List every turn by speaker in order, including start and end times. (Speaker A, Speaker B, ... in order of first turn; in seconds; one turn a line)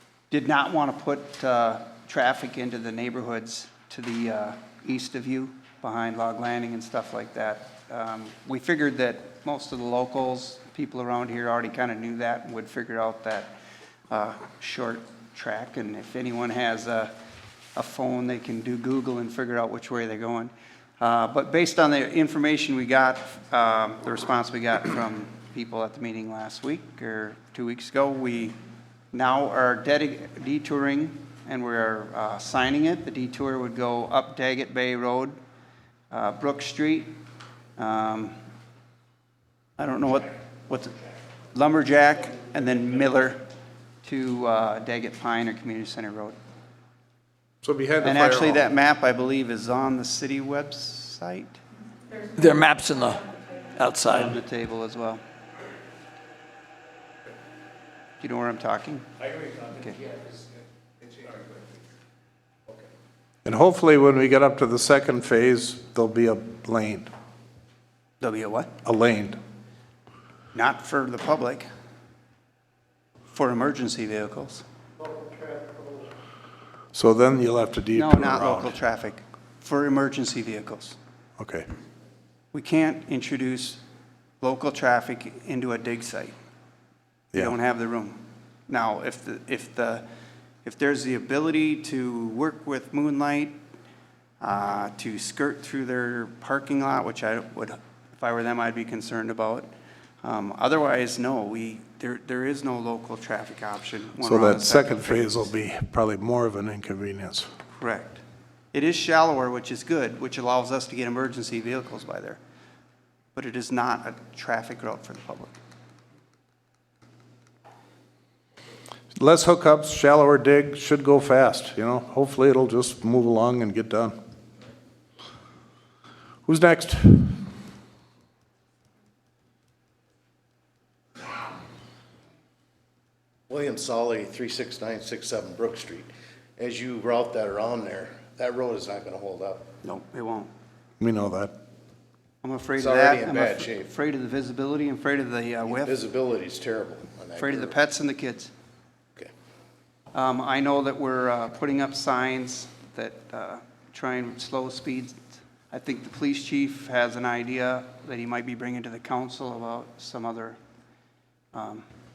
Speaker A: 0.3-13.5
Speaker A: 14.1-17.1
Speaker A: 17.7-28.6
Speaker A: 29.1-35.4
Speaker A: 36.1-37.2
Speaker A: 37.8-38.4
Speaker A: 39.8-41.0
Speaker A: 41.5-43.4
Speaker A: 44.0-46.4
Speaker B: 47.6-48.6
Speaker A: 48.0-51.6
Speaker C: 52.3-54.4
Speaker A: 54.1-55.2
Speaker A: 58.2-60.0
Speaker B: 63.4-67.1
Speaker A: 68.2-68.7
Speaker B: 68.8-69.4
Speaker A: 70.5-71.7
Speaker A: 73.3-74.6
Speaker B: 76.9-78.7
Speaker A: 77.9-81.0
Speaker B: 81.4-81.7
Speaker A: 82.5-83.8
Speaker A: 84.4-86.3
Speaker A: 87.3-90.0
Speaker A: 90.6-93.6
Speaker A: 94.4-99.7
Speaker A: 100.2-105.4
Speaker B: 104.2-107.5
Speaker A: 107.8-108.2
Speaker A: 108.7-112.4
Speaker A: 113.3-115.5
Speaker B: 119.2-124.1
Speaker B: 126.5-127.4
Speaker D: 133.5-139.7
Speaker A: 139.8-140.5
Speaker B: 141.0-141.5
Speaker A: 142.4-145.9
Speaker D: 142.8-143.9
Speaker D: 145.7-147.7
Speaker A: 147.3-148.5
Speaker A: 150.1-160.6
Speaker A: 161.5-161.8